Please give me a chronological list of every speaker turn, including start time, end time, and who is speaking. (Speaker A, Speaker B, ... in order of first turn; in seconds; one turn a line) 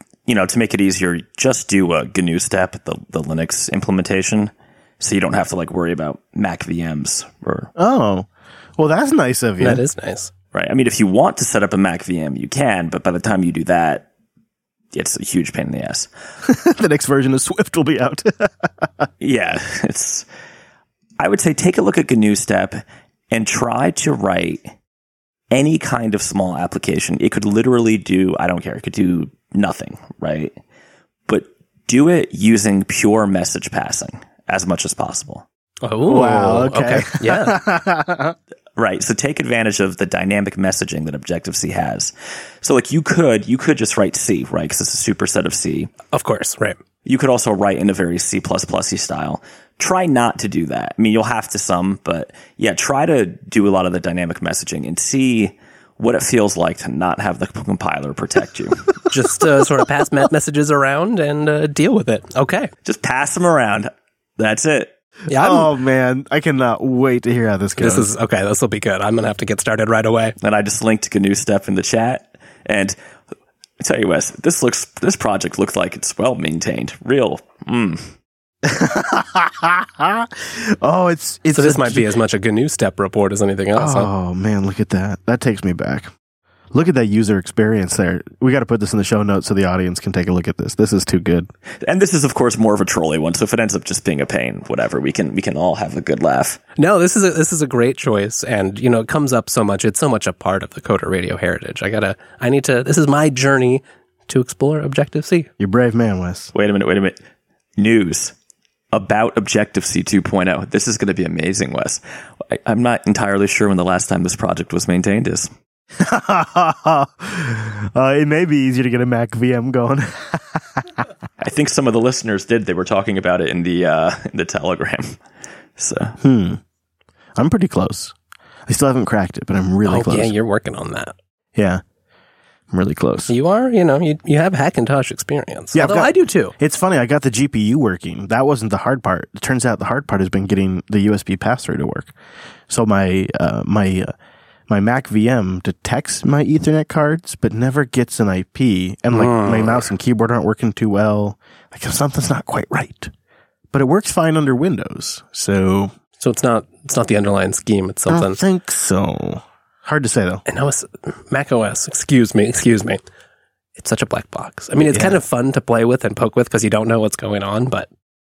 Speaker A: 0.3-7.7
Speaker B: 7.8-9.8
Speaker C: 9.6-10.3
Speaker A: 10.5-14.1
Speaker A: 14.9-16.1
Speaker B: 16.4-19.1
Speaker A: 19.2-20.3
Speaker A: 21.2-24.7
Speaker A: 25.5-30.6
Speaker A: 31.3-35.5
Speaker C: 35.8-37.6
Speaker B: 36.1-38.4
Speaker A: 38.8-45.9
Speaker C: 46.1-46.8
Speaker A: 47.0-59.0
Speaker C: 59.1-62.7
Speaker A: 62.8-64.9
Speaker C: 65.3-65.7
Speaker B: 65.3-68.1
Speaker C: 67.8-70.3
Speaker A: 70.4-73.0
Speaker A: 73.8-78.1
Speaker B: 78.6-82.1
Speaker C: 81.5-84.1
Speaker B: 83.8-86.1
Speaker B: 86.7-91.5
Speaker A: 91.8-96.6
Speaker C: 96.8-105.5
Speaker B: 105.6-106.5
Speaker A: 106.5-107.2
Speaker A: 107.8-108.3
Speaker A: 108.9-115.5
Speaker B: 116.0-121.1
Speaker A: 121.4-125.2
Speaker A: 125.8-126.2
Speaker B: 126.2-126.6
Speaker B: 127.4-128.1
Speaker B: 128.7-130.3
Speaker C: 129.8-131.2
Speaker B: 131.6-131.8
Speaker B: 132.7-133.3
Speaker C: 133.3-136.5
Speaker B: 135.7-142.1
Speaker B: 142.7-144.1
Speaker B: 144.7-153.1
Speaker C: 149.1-149.9
Speaker B: 153.7-155.9
Speaker C: 156.2-158.4
Speaker B: 158.1-160.4
Speaker C: 160.5-163.0
Speaker C: 163.8-167.9
Speaker B: 164.8-165.2